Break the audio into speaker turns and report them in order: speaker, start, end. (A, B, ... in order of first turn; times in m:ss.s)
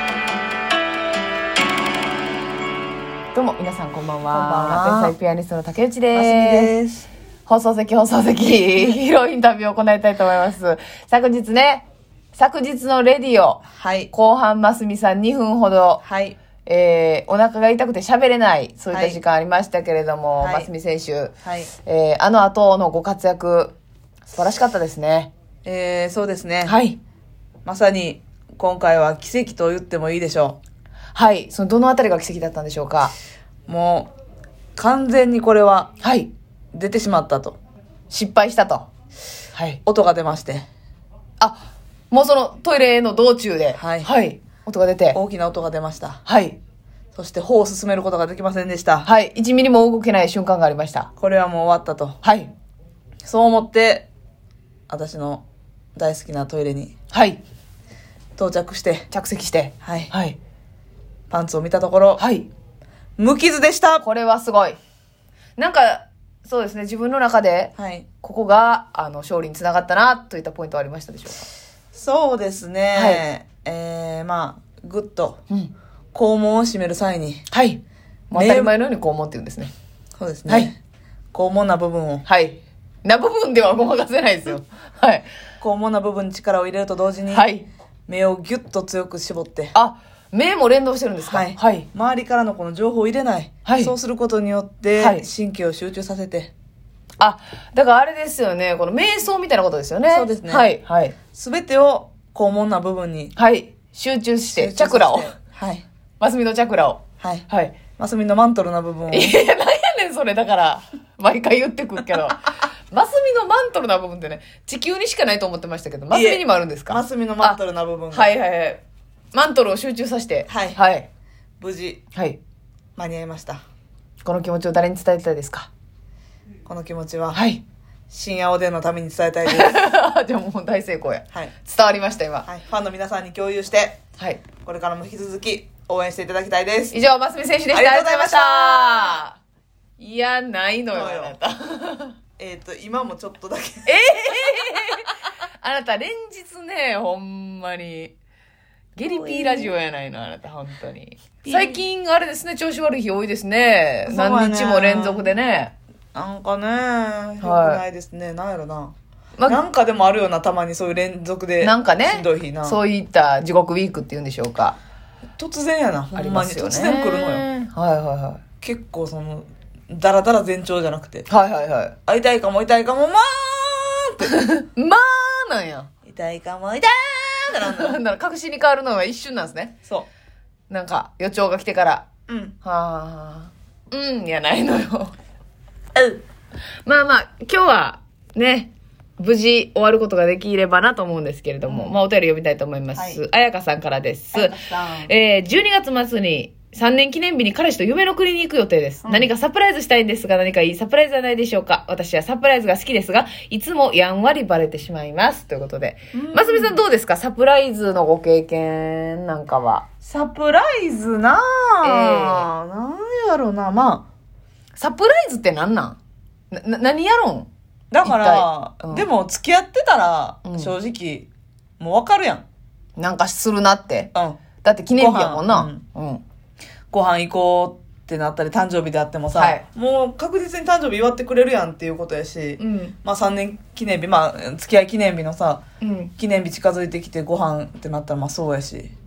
0:03.3-0:06.7 A
0:04.3-0:05.1 B
0:06.1-0:07.1 B
0:07.5-0:16.0 A
0:13.7-0:14.1 B
0:16.0-0:16.4 B
0:16.6-0:23.7 A
0:18.9-0:19.2 B
0:20.4-0:20.7 B
0:21.4-0:21.7 B
0:24.3-0:25.3 A
0:25.6-0:26.8 B
0:26.7-0:27.0 A
0:27.6-0:30.6 B
0:31.1-0:33.1 A
0:33.7-0:34.1 B
0:34.8-0:35.9 B
0:36.0-0:36.3 A
0:36.7-0:37.6 B
0:38.1-0:38.9 A
0:39.6-0:39.8 A
0:39.8-0:40.7 B
0:42.1-0:45.2 A
0:43.7-0:44.1 B
0:45.1-0:46.2 B
0:46.2-0:46.6 A
0:47.1-0:49.1 B
0:49.0-0:51.1 A
0:51.2-0:52.2 B
0:52.2-0:52.5 A
0:53.2-0:54.1 B
0:54.9-0:55.4 B
0:56.0-0:56.9 B
0:57.1-0:57.4 A
0:58.4-0:59.1 B
0:59.1-1:00.4 A
0:59.8-1:00.1 B
1:01.3-1:02.2 B
1:02.2-1:02.5 A
1:03.2-1:04.0 B
1:04.0-1:04.8 A
1:05.6-1:11.5 A
1:07.8-1:08.1 B
1:11.9-1:15.4 B
1:13.0-1:13.2 A
1:16.1-1:17.5 B
1:17.5-1:19.7 A
1:18.3-1:18.7 B
1:20.2-1:20.8 B
1:21.3-1:22.2 B
1:22.3-1:25.3 A
1:25.6-1:27.5 B
1:27.3-1:27.7 A
1:28.1-1:29.8 B
1:29.7-1:31.9 A
1:31.2-1:36.5 B
1:33.6-1:33.9 A
1:35.0-1:35.2 A
1:37.2-1:41.2 A
1:40.1-1:40.7 B
1:41.3-1:43.3 B
1:43.4-1:45.3 A
1:44.5-1:45.8 B
1:46.2-1:47.8 A
1:47.2-1:47.5 B
1:48.0-1:49.3 B
1:49.1-1:57.6 A
1:56.1-1:58.3 B
1:58.1-1:58.8 A
1:59.3-2:01.1 A
2:00.5-2:00.8 B
2:01.6-2:02.0 B
2:03.0-2:03.6 B
2:04.2-2:05.7 A
2:06.7-2:07.4 B
2:07.3-2:07.6 A
2:08.1-2:09.8 B
2:09.5-2:12.5 A
2:12.5-2:14.0 B
2:14.6-2:17.0 B
2:16.9-2:19.4 A
2:17.7-2:19.2 B
2:20.0-2:22.2 A
2:20.9-2:21.4 B
2:22.4-2:24.9 B
2:23.9-2:28.1 A
2:28.9-2:35.7 A
2:29.0-2:29.7 B
2:31.4-2:31.8 B
2:34.0-2:35.3 B
2:36.1-2:38.9 B
2:37.4-2:37.8 A
2:39.5-2:42.8 B
2:41.6-2:44.8 A
2:45.4-2:47.5 B
2:46.2-2:48.4 A
2:48.6-2:51.3 B
2:51.3-2:51.9 A
2:52.1-2:54.3 B
2:54.2-2:55.9 A
2:56.0-2:58.0 B
2:57.6-2:59.7 A
3:00.7-3:02.1 A
3:02.3-3:02.6 B
3:02.6-3:05.1 A
3:05.9-3:06.2 B
3:06.9-3:29.9 A
3:11.7-3:12.0 B
3:12.9-3:13.2 B
3:14.3-3:15.1 B
3:26.1-3:26.8 B
3:30.0-3:34.0 B
3:31.8-3:32.5 A
3:34.8-3:36.0 A
3:36.5-3:37.5 A
3:37.9-3:41.3 B
3:38.0-3:39.1 A
3:40.4-3:40.7 A
3:41.8-3:42.4 B
3:43.0-3:44.1 A
3:44.1-3:44.4 B
3:44.6-3:46.2 A
3:45.0-3:45.8 B
3:46.9-3:55.6 B
3:49.3-3:49.6 A
3:52.6-3:52.9 A
3:55.8-3:56.1 A
3:56.2-3:58.9 B